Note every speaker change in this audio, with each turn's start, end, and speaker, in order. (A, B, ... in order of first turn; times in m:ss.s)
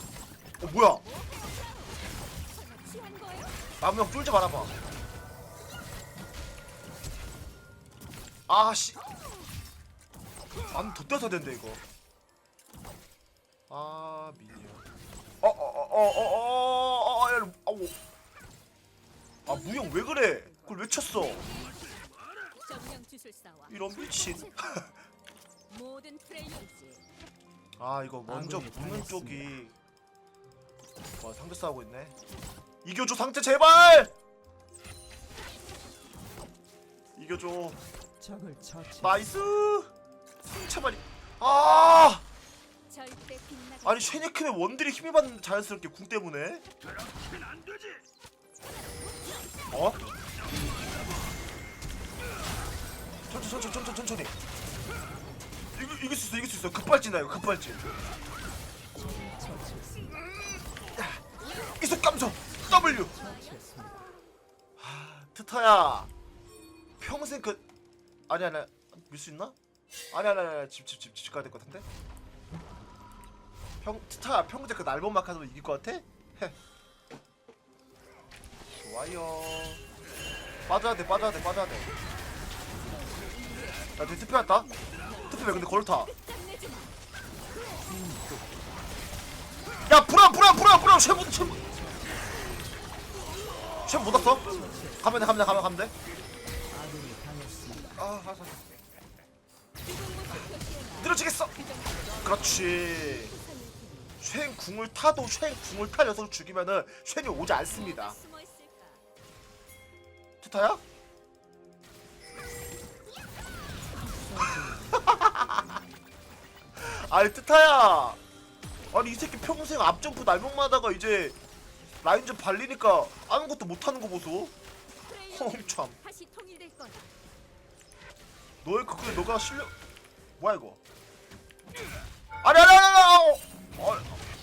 0:00.6-0:01.0 A
0:00.9-0:03.7 B
0:03.8-0:04.7 A
0:08.5-0:09.0 A
0:10.7-0:11.8 A
0:13.7-0:14.8 A
0:15.4-0:18.0 A
0:19.4-0:21.4 A
0:19.4-0:25.0 B
0:23.7-0:25.0 A
0:25.7-0:27.0 B
0:27.8-0:29.7 A
0:28.3-0:29.4 C
0:31.2-0:32.1 A
0:32.8-0:34.1 A
0:37.2-0:37.8 A
0:38.2-0:39.1 C
0:39.0-0:39.9 A
0:40.4-0:42.2 A
0:42.9-0:44.3 B
0:43.8-0:46.6 A
0:49.7-0:50.0 A
0:53.3-0:54.3 A
0:55.8-0:57.8 A
0:59.2-0:59.9 C
1:00.9-1:03.1 A
1:01.4-1:01.8 B
1:02.7-1:03.9 B
1:03.1-1:03.6 C
1:04.8-1:06.1 A
1:07.0-1:07.6 A
1:08.3-1:09.5 A
1:10.1-1:11.8 A
1:13.8-1:16.6 A
1:18.8-1:19.8 A
1:20.7-1:21.9 A
1:22.8-1:27.0 B
1:24.0-1:24.7 A
1:25.3-1:26.1 A
1:27.9-1:28.2 C
1:29.9-1:31.6 A
1:33.8-1:35.9 A
1:34.5-1:35.0 C
1:36.7-1:37.9 C
1:37.9-1:38.6 A
1:39.8-1:44.2 B
1:41.0-1:41.5 A
1:42.2-1:43.3 A
1:44.2-1:48.2 A
1:47.4-1:49.0 B
1:50.4-1:50.8 A
1:54.1-1:54.9 C
1:54.4-1:55.8 A
1:56.8-1:58.2 A
1:58.9-2:01.4 A
2:02.0-2:04.5 A
2:05.0-2:07.1 B
2:05.3-2:06.0 A
2:08.6-2:09.7 A
2:10.4-2:10.8 A
2:12.4-2:14.2 A